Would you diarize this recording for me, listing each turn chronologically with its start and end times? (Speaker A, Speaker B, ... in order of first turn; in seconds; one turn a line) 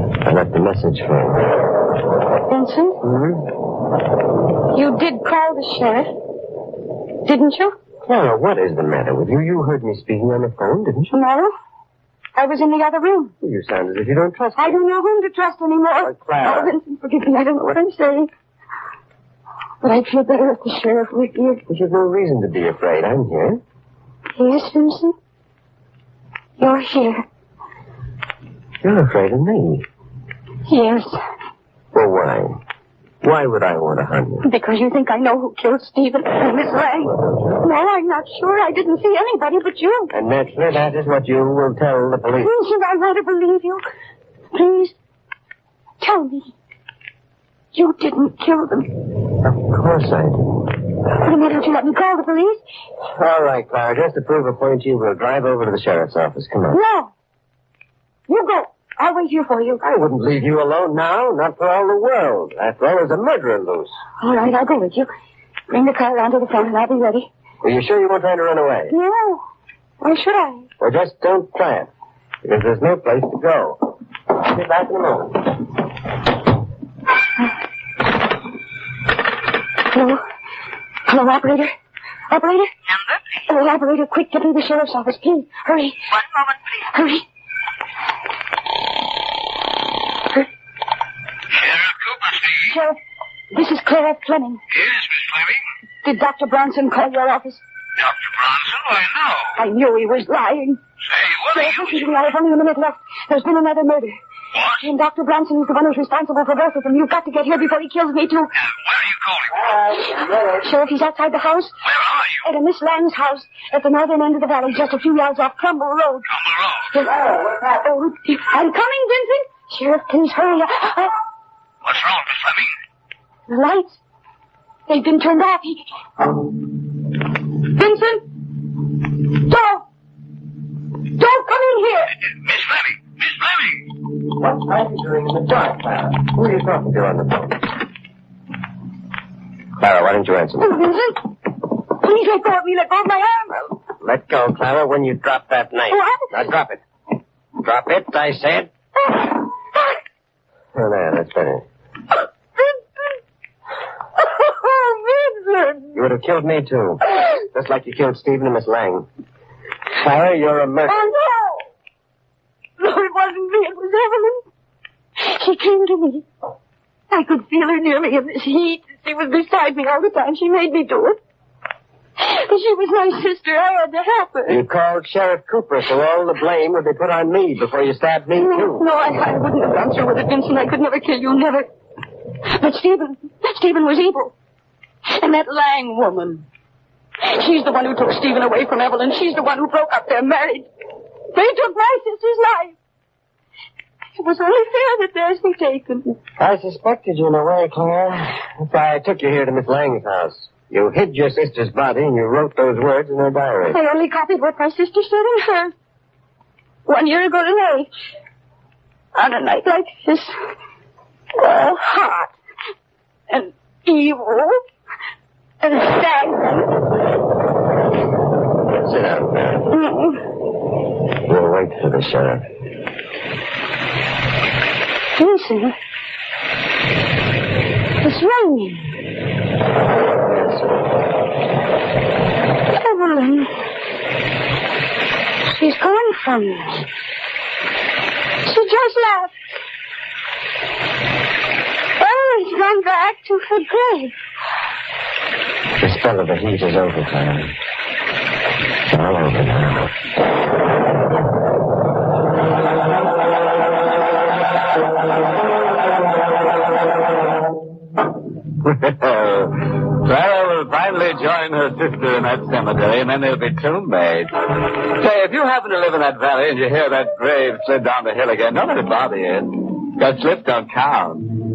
Speaker A: 0.2-1.5
Speaker B: 2.5-3.0
Speaker A: 3.0-3.5
Speaker B: 4.7-6.1
Speaker B: 7.2-7.8
Speaker A: 8.0-11.1
Speaker B: 11.1-11.5
Speaker B: 12.4-13.3
Speaker A: 13.4-14.8
Speaker B: 14.6-18.3
Speaker A: 16.0-16.8
Speaker B: 19.8-21.6
Speaker A: 21.7-23.6
Speaker B: 24.4-25.1
Speaker B: 26.6-27.2
Speaker A: 28.8-29.9
Speaker B: 30.7-31.2
Speaker A: 31.9-32.6
Speaker A: 33.2-34.5
Speaker B: 34.4-40.1
Speaker A: 37.0-37.6
Speaker A: 40.1-42.5
Speaker B: 42.4-43.9
Speaker B: 44.5-45.0
Speaker B: 46.0-46.5
Speaker B: 47.7-49.0
Speaker A: 49.4-50.8
Speaker B: 51.2-52.6
Speaker A: 53.1-56.8
Speaker B: 56.7-57.1
Speaker B: 58.3-59.8
Speaker A: 59.8-64.0
Speaker B: 64.2-65.1
Speaker B: 65.7-67.3
Speaker A: 67.6-68.9
Speaker B: 68.9-69.4
Speaker B: 70.0-70.7
Speaker A: 70.8-71.9
Speaker A: 72.4-75.6
Speaker B: 79.8-80.2
Speaker B: 81.1-81.7
Speaker B: 82.3-82.7
Speaker C: 82.9-83.2
Speaker B: 83.5-86.0
Speaker C: 86.1-86.7
Speaker B: 86.9-87.2
Speaker B: 92.7-93.0
Speaker B: 93.5-94.6
Speaker B: 96.0-97.6
Speaker C: 98.0-99.5
Speaker B: 99.5-100.8
Speaker C: 101.2-101.8
Speaker B: 101.5-104.2
Speaker B: 104.7-108.5
Speaker C: 108.6-109.7
Speaker B: 110.0-111.8
Speaker C: 111.9-112.4
Speaker B: 112.4-116.3
Speaker C: 116.3-116.9
Speaker B: 116.9-121.2
Speaker C: 121.8-122.7
Speaker B: 123.5-124.0
Speaker B: 124.9-125.8
Speaker B: 127.6-128.3
Speaker B: 129.3-129.8
Speaker B: 131.1-132.2
Speaker C: 132.5-132.9
Speaker A: 134.3-137.7
Speaker A: 139.8-140.9
Speaker B: 140.6-141.3
Speaker B: 141.8-143.6
Speaker A: 143.6-146.8
Speaker B: 145.9-146.3
Speaker A: 147.6-148.7
Speaker A: 150.7-151.7
Speaker B: 152.6-153.1
Speaker B: 154.2-156.0
Speaker A: 155.9-159.1
Speaker A: 159.9-161.1
Speaker B: 160.9-161.7
Speaker B: 162.8-164.4
Speaker B: 165.2-166.3
Speaker B: 167.1-171.2
Speaker B: 172.2-174.6
Speaker A: 174.5-178.8
Speaker B: 178.4-181.7
Speaker B: 182.4-184.3
Speaker B: 185.1-186.4
Speaker B: 187.2-190.7
Speaker B: 191.3-192.8
Speaker B: 194.2-196.2
Speaker A: 196.4-203.8
Speaker B: 203.7-205.8
Speaker B: 206.9-207.9
Speaker B: 209.2-210.3
Speaker B: 211.3-212.3
Speaker B: 213.3-214.6
Speaker B: 215.6-216.8
Speaker A: 218.7-219.7
Speaker B: 219.7-220.2
Speaker A: 221.2-222.4
Speaker B: 225.2-225.8
Speaker B: 228.0-228.9
Speaker A: 230.1-231.0
Speaker B: 232.7-233.6
Speaker B: 235.4-236.9
Speaker B: 238.4-239.4
Speaker B: 242.0-244.2
Speaker A: 245.8-247.6
Speaker A: 248.9-249.9
Speaker D: 258.6-271.3